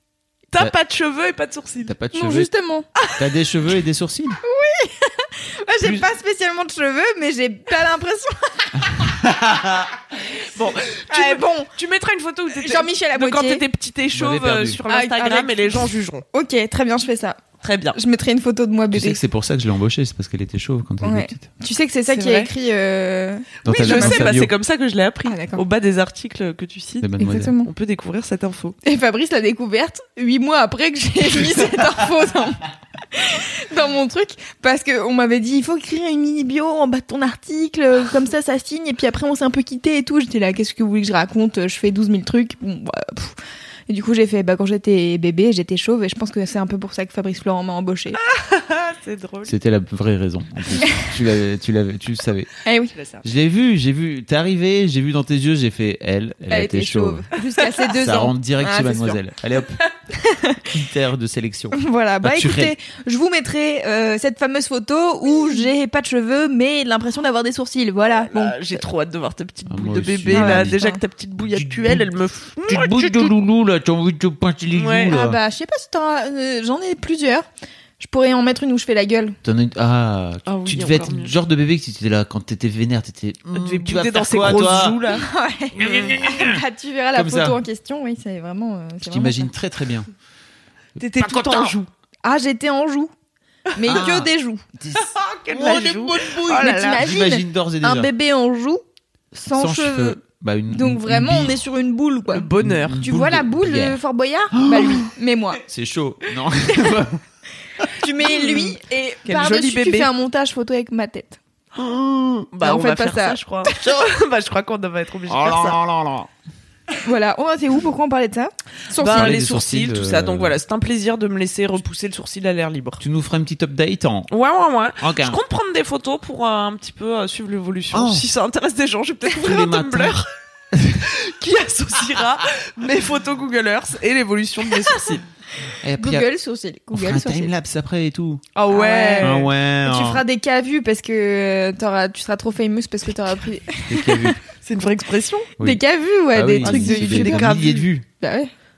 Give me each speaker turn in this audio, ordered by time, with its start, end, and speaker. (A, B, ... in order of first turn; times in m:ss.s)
0:00.5-0:01.9 A
0:01.9-0:02.5 B
0:02.1-0:02.9 C
0:03.2-0:04.4 B
0:04.4-0:09.0 C
0:05.8-0:06.1 B
0:09.0-0:09.9 B
0:10.5-0:16.2 A
0:11.1-0:11.7 C
0:12.6-0:13.6 C
0:14.1-0:14.8 B
0:14.8-0:17.4 C
0:17.6-0:18.0 A
0:17.9-0:19.2 C
0:18.9-0:21.5 B
0:21.0-0:24.4 C
0:22.1-0:22.5 A
0:23.6-0:24.5 B
0:23.7-0:27.1 A
0:25.3-0:25.6 C
0:27.0-0:27.6 B
0:27.2-0:27.7 C
0:27.6-0:28.8 A
0:28.8-0:43.4 C
0:43.9-0:48.2 C
0:48.2-0:49.5 A
0:49.4-0:52.5 B
0:52.6-0:52.9 C
0:52.9-0:53.2 A
0:53.2-0:57.3 B
0:56.5-0:59.2 C
0:57.9-0:59.8 B
1:00.1-1:00.6 C
1:00.7-1:02.7 B
1:01.7-1:08.8 C
1:05.3-1:05.6 A
1:08.3-1:13.4 A
1:09.7-1:10.8 B
1:10.3-1:11.0 C
1:11.5-1:12.1 B
1:12.6-1:15.4 B
1:14.7-1:15.2 A
1:15.1-1:17.5 C
1:18.0-1:19.4 C
1:19.4-1:25.0 B
1:20.5-1:21.3 A
1:23.5-1:25.3 A
1:25.1-1:29.5 C
1:25.8-1:26.6 B
1:25.8-1:26.2 A
1:27.1-1:27.6 B
1:29.0-1:30.1 B
1:31.0-1:31.9 A
1:31.2-1:31.7 B
1:32.2-1:33.1 C
1:33.8-1:34.6 C
1:33.8-1:38.1 B
1:35.0-1:37.0 A
1:36.4-1:40.2 C
1:39.5-1:41.6 B
1:40.7-1:45.6 C
1:42.3-1:43.0 A
1:42.6-1:44.0 B
1:44.5-1:45.1 B
1:45.7-1:47.2 B
1:47.9-1:51.4 C
1:48.2-1:50.1 A
1:51.8-1:52.5 B
1:52.5-1:55.8 A
1:52.6-1:53.8 C
1:53.8-1:54.1 B
1:55.3-1:56.3 B
1:57.0-1:59.4 C
1:59.0-2:03.0 A
1:59.0-2:00.6 B
2:03.0-2:04.3 B
2:04.3-2:10.3 A
2:05.0-2:05.4 B
2:07.9-2:08.3 B
2:09.4-2:10.2 B
2:10.7-2:11.1 B
2:11.0-2:15.2 A
2:15.8-2:16.3 B
2:16.0-2:17.5 C
2:16.9-2:18.4 B
2:18.6-2:19.5 A
2:18.7-2:24.4 C
2:19.2-2:20.2 B
2:23.9-2:24.4 B
2:24.6-2:25.5 A
2:25.6-2:27.6 C
2:26.3-2:28.1 B
2:26.6-2:27.9 A
2:28.2-2:28.5 C